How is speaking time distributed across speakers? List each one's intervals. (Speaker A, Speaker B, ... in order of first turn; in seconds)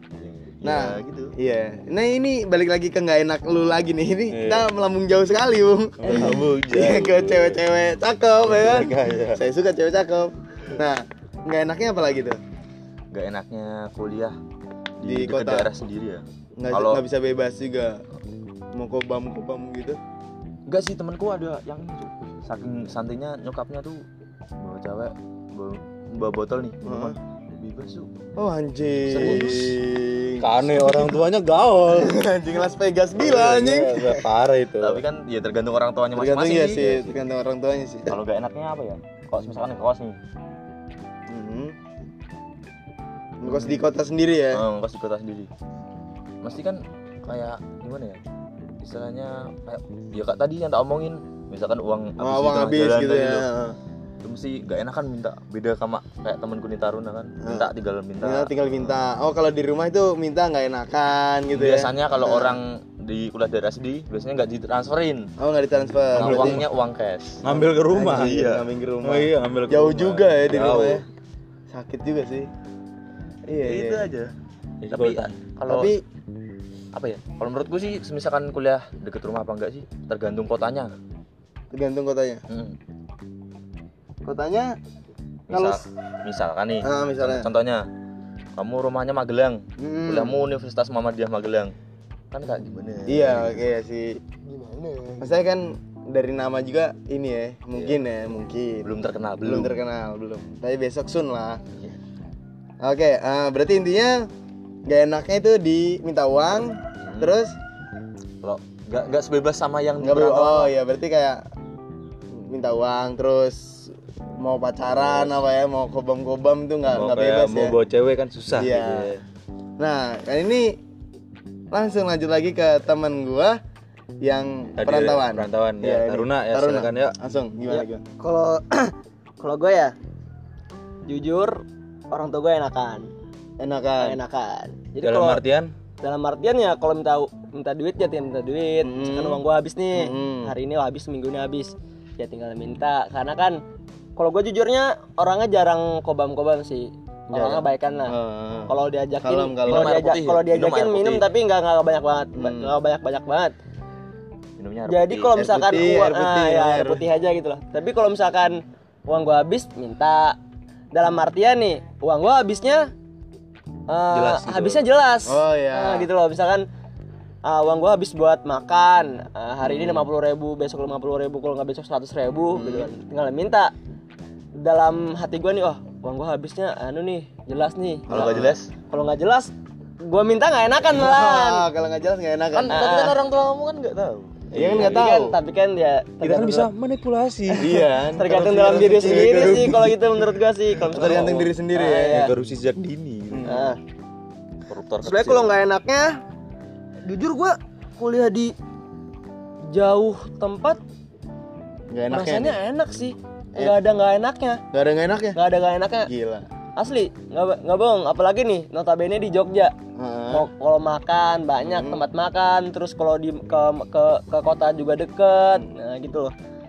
Speaker A: 0.2-1.4, 13.1-14.4, 15.0-17.0, 20.7-24.0, 24.6-28.1, 29.1-29.8, 34.8-37.2, 38.1-40.2, 43.5-43.8, 44.5-45.5, 46.4-48.2, 48.8-53.4, 54.2-58.9, 61.5-65.3, 66.2-67.4, 68.0-68.6, 73.6-74.3, 74.9-75.9, 76.9-80.9, 82.5-82.8, 85.5-87.8, 88.5-91.7, 92.3-93.6, 98.8-99.8, 107.0-107.4, 108.4-110.7, 149.7-151.2, 154.6-155.4, 178.1-178.7, 182.5-184.4, 194.7-195.5
Speaker B: 0.6-12.4, 15.0-15.7, 16.6-18.0, 18.7-20.0, 26.8-27.1, 28.4-31.1, 31.9-34.2, 36.1-38.1, 41.3-41.7, 43.4-44.6, 52.2-53.8, 57.4-57.7, 58.2-62.6, 65.4-66.6, 67.5-71.0, 71.7-72.5, 73.5-74.1, 75.7-76.0, 81.7-82.4, 84.2-84.8, 85.5-85.8, 86.8-87.5, 89.8-90.4, 93.1-94.2, 95.2-98.9, 99.4-101.6, 102.8-104.3, 104.9-107.5, 110.0-111.4, 112.3-117.8, 118.5-119.1, 119.8-120.8, 121.7-123.6, 124.2-128.0, 133.6-134.2, 138.8-139.4, 139.9-140.5, 147.3-150.0, 152.4-152.8, 155.3-157.0, 165.2-166.1, 169.7-170.0, 172.5-172.9, 178.1-178.5, 180.9-182.9, 184.5-185.4, 187.6-190.0, 190.8-192.3, 193.3-193.7, 201.9-202.6, 204.7-205.4, 206.0-206.5, 209.9-210.5, 211.6-212.0
Speaker C: 4.3-4.7, 6.0-7.6, 8.4-9.4, 29.2-29.6, 30.4-32.2, 33.2-35.0, 66.2-66.6, 67.4-68.5, 69.0-71.0, 74.8-75.4, 116.9-119.2, 124.8-127.1, 135.0-135.7, 164.1-164.9, 184.5-185.1, 186.2-187.7, 188.3-189.7, 190.9-191.3, 192.1-193.7
Speaker D: 6.0-6.4, 127.7-129.9, 131.1-133.1, 134.0-135.4, 136.0-143.6, 144.2-148.1, 148.7-153.5, 154.9-160.4, 160.9-162.9, 163.9-166.7, 167.4-173.7, 174.5-181.7, 182.7-183.2, 184.6-186.7, 187.5-192.3, 193.4-193.8, 195.0-196.2, 197.0-198.5, 199.6-200.8, 202.1-204.6, 205.3-206.1, 206.8-209.7, 210.3-216.3